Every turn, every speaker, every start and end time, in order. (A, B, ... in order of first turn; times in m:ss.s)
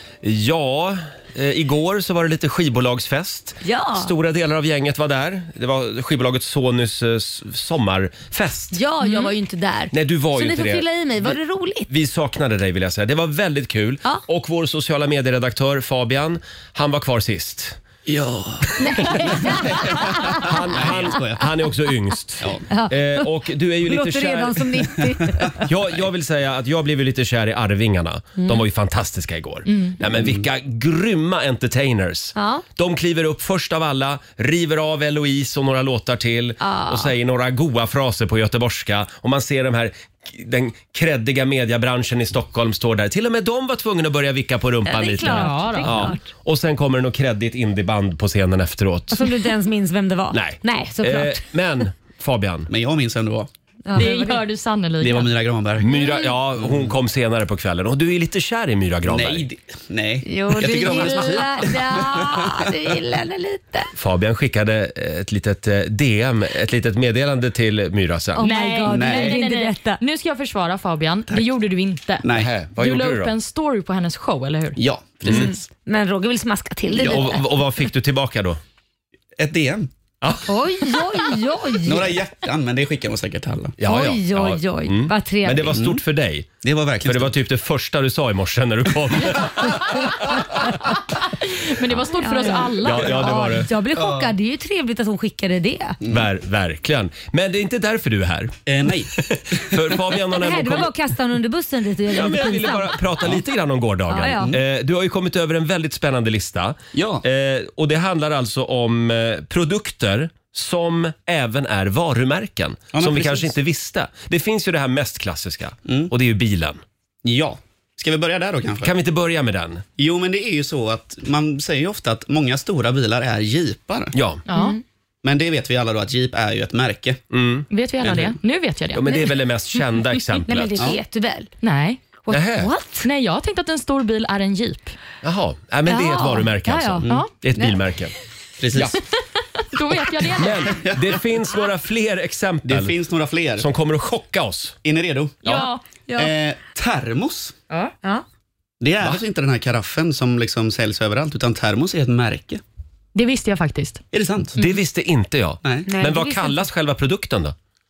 0:00.2-0:08.8 A
0:03.6-0:04.1 B
0:08.7-0:11.9 B
0:09.9-0:11.4 A
0:11.9-0:17.8 A
0:18.1-0:21.4 C
0:18.7-0:19.6 A
0:18.8-0:21.1 B
0:20.3-0:25.0 A
0:22.7-0:25.6 B
0:25.6-0:49.3 A
0:28.4-0:28.7 B
0:29.7-0:30.0 D
0:30.1-0:30.5 C
0:32.4-0:32.6 B
0:36.6-0:37.2 B
0:44.8-0:46.3 B
0:45.2-0:46.1 D
0:49.1-0:51.4 B
0:50.3-0:52.7 A
0:52.7-0:53.5 C
0:53.9-0:54.4 B
0:54.0-0:55.3 D
0:55.0-0:57.0 C
0:55.8-0:59.5 A
0:55.9-0:56.3 B
0:59.0-1:02.7 C
1:00.2-1:03.9 B
1:04.0-1:08.5 A
1:08.4-1:10.0 B
1:08.4-1:12.3 D
1:08.8-1:09.4 C
1:12.2-1:12.5 C
1:12.4-1:13.3 A
1:12.8-1:14.8 D
1:14.8-1:15.7 C
1:15.2-1:15.5 A
1:15.3-1:17.4 B
1:17.0-1:17.2 C
1:17.0-1:18.6 A
1:19.4-1:19.9 C
1:20.2-1:20.5 A
1:20.5-1:22.1 B
1:21.8-1:23.8 C
1:23.8-1:30.7 A
1:23.8-1:25.8 B
1:25.7-1:26.0 C
1:26.6-1:27.4 C
1:31.2-1:33.7 D
1:32.1-1:36.0 B
1:32.8-1:33.7 A
1:36.0-1:36.3 C
1:36.1-1:38.5 A
1:38.7-1:40.0 C
1:39.3-1:40.9 A
1:40.4-1:43.4 B
1:42.1-1:56.8 A
1:44.1-1:44.5 B
1:46.9-1:47.2 C
1:52.9-1:53.6 C
1:55.9-1:56.1 C
1:57.2-1:58.9 C
1:58.8-1:59.8 A
2:00.0-2:04.2 C
2:04.1-2:04.4 A
2:04.5-2:04.8 D
2:04.5-2:04.8 B
2:05.2-2:07.2 C
2:07.3-2:08.1 A
2:07.7-2:09.1 D
2:08.0-2:08.4 C
2:08.9-2:11.0 A
2:10.4-2:11.5 B
2:11.6-2:12.0 D
2:12.3-2:13.1 B
2:12.3-2:12.7 A
2:13.0-2:15.0 D
2:15.2-2:18.1 A
2:15.9-2:17.9 B
2:18.6-2:19.0 C
2:19.6-2:20.8 D
2:20.4-2:23.0 A
2:20.7-2:21.2 C
2:22.6-2:23.7 C
2:23.6-2:24.8 A
2:24.8-2:27.6 C
2:25.4-2:25.8 D
2:28.8-2:32.6 C
2:33.2-2:34.0 D
2:34.1-2:34.6 C
2:34.6-2:37.6 A
2:35.6-2:35.9 C
2:35.9-2:36.7 B